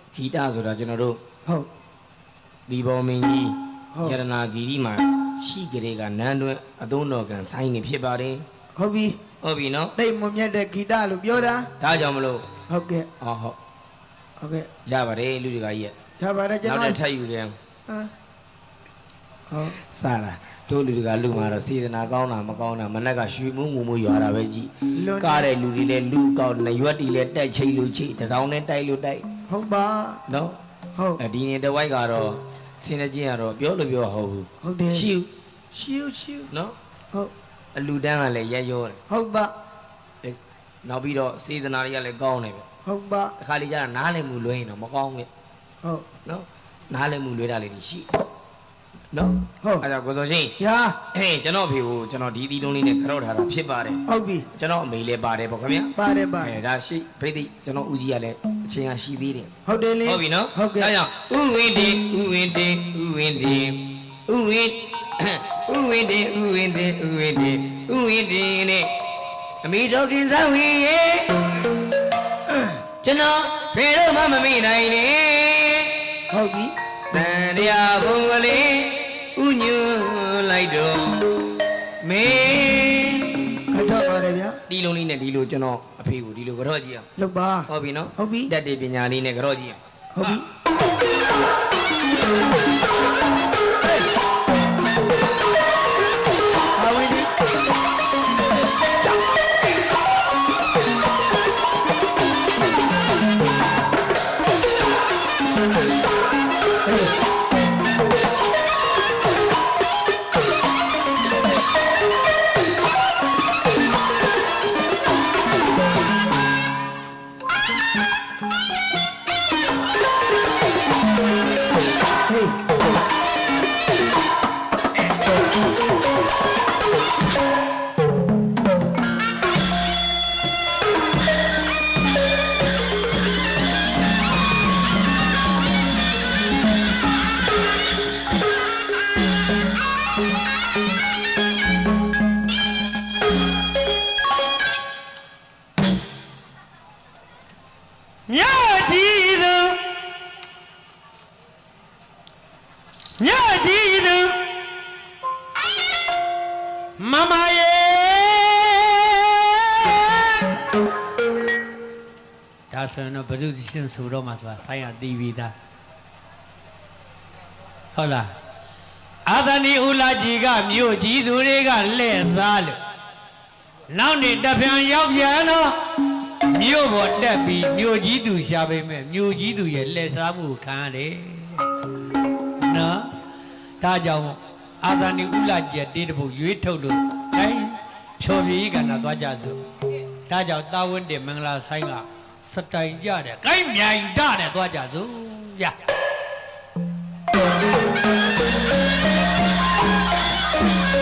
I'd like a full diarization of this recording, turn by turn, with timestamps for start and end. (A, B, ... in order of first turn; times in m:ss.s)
0:00.1-0:01.2 A
0:02.7-0:08.4 A
0:08.8-0:09.2 B
0:09.4-0:10.0 A
0:10.0-0:11.7 B
0:11.8-0:12.4 A
0:12.7-0:13.1 B
0:13.2-0:13.6 A
0:14.4-0:14.7 B
0:14.9-0:15.9 A
0:16.2-0:17.0 B
0:16.6-0:17.6 A
0:19.5-0:19.8 B
0:19.9-0:29.3 A
0:25.0-0:25.5 B
0:29.5-0:30.2 B
0:30.3-0:30.6 A
0:31.2-0:35.3 A
0:34.6-0:35.1 B
0:35.7-0:36.5 B
0:36.5-0:36.8 A
0:37.8-0:39.0 A
0:39.1-0:39.5 B
0:40.2-0:42.7 A
0:42.8-0:43.3 B
0:43.4-0:45.3 A
0:46.2-0:48.1 A
0:49.1-0:50.6 A
0:50.6-0:51.0 B
0:51.1-0:54.0 A
0:54.1-0:54.5 B
0:54.6-0:59.5 A
0:56.0-0:56.6 B
0:59.7-1:00.9 B
1:00.0-1:08.9 A
1:09.6-1:11.5 A
1:12.5-1:16.0 A
1:16.3-1:16.7 B
1:17.1-1:21.3 A
1:22.0-1:23.4 A
1:23.7-1:24.6 B
1:24.7-1:27.1 A
1:27.2-1:28.5 B
1:27.7-1:29.8 A
1:30.1-1:30.4 B
1:36.8-1:37.3 B
1:46.8-1:47.2 B
2:02.3-2:02.6 B
2:28.3-2:29.9 C
2:33.2-2:34.4 C
2:37.0-2:40.5 C
2:42.7-2:45.5 C
2:47.9-2:48.3 C
2:49.3-2:52.8 C
2:53.9-2:55.8 C
2:56.5-3:01.6 C
3:02.6-3:03.1 C
3:03.8-3:09.6 C
3:10.3-3:15.7 C